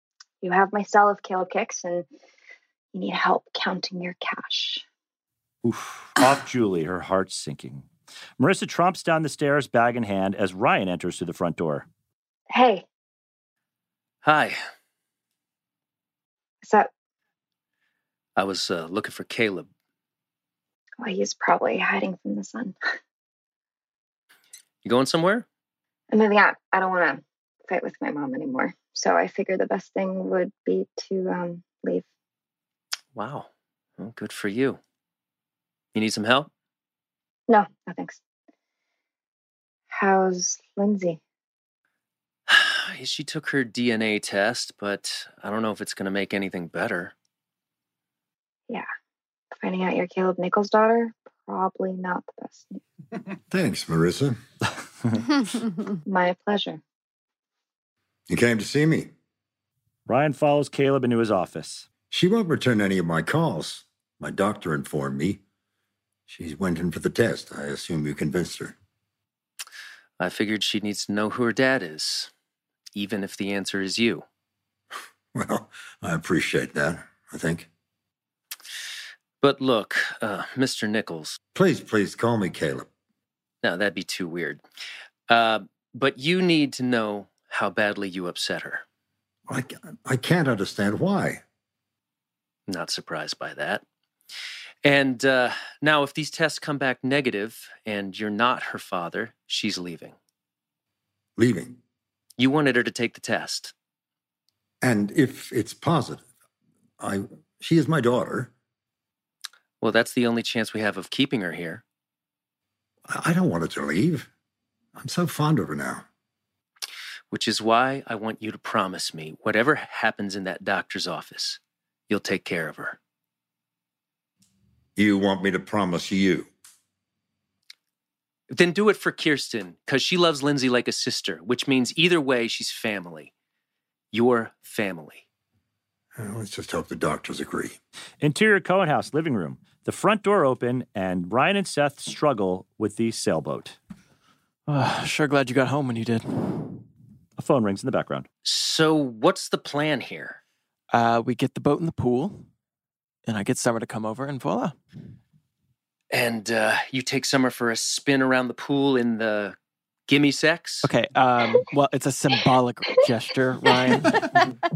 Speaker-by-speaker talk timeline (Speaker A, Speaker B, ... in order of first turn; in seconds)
Speaker A: 0.4-2.0, 2.9-4.8, 12.5-12.8, 16.6-16.9, 21.0-22.7, 26.1-32.0, 37.5-38.2, 39.9-41.2, 49.6-52.8, 56.0-56.8
Speaker B: 5.6-7.8, 8.4-11.8, 60.1-61.9, 138.2-143.8, 147.4-148.3
Speaker C: 14.2-14.6, 18.4-19.7, 24.8-25.4, 33.1-33.5, 34.0-34.8, 35.9-36.5, 42.5-47.1, 70.2-72.3, 72.9-74.2, 79.4-81.4, 83.6-84.6, 85.3-88.8, 92.7-93.8, 94.8-100.1, 102.4-103.7, 109.8-111.8, 117.3-123.0, 128.5-133.3, 134.1-135.2, 148.4-150.4, 156.1-159.6, 160.1-160.9
Speaker D: 53.5-54.4, 58.3-59.1, 62.1-65.4, 66.3-68.7, 75.3-77.7, 81.5-82.9, 89.5-91.4, 101.4-101.8, 104.8-106.2, 107.0-108.5, 113.1-114.3, 114.9-116.0, 125.0-126.5, 136.1-137.8
Speaker E: 144.7-146.8, 150.9-152.4, 153.3-154.7, 160.8-164.3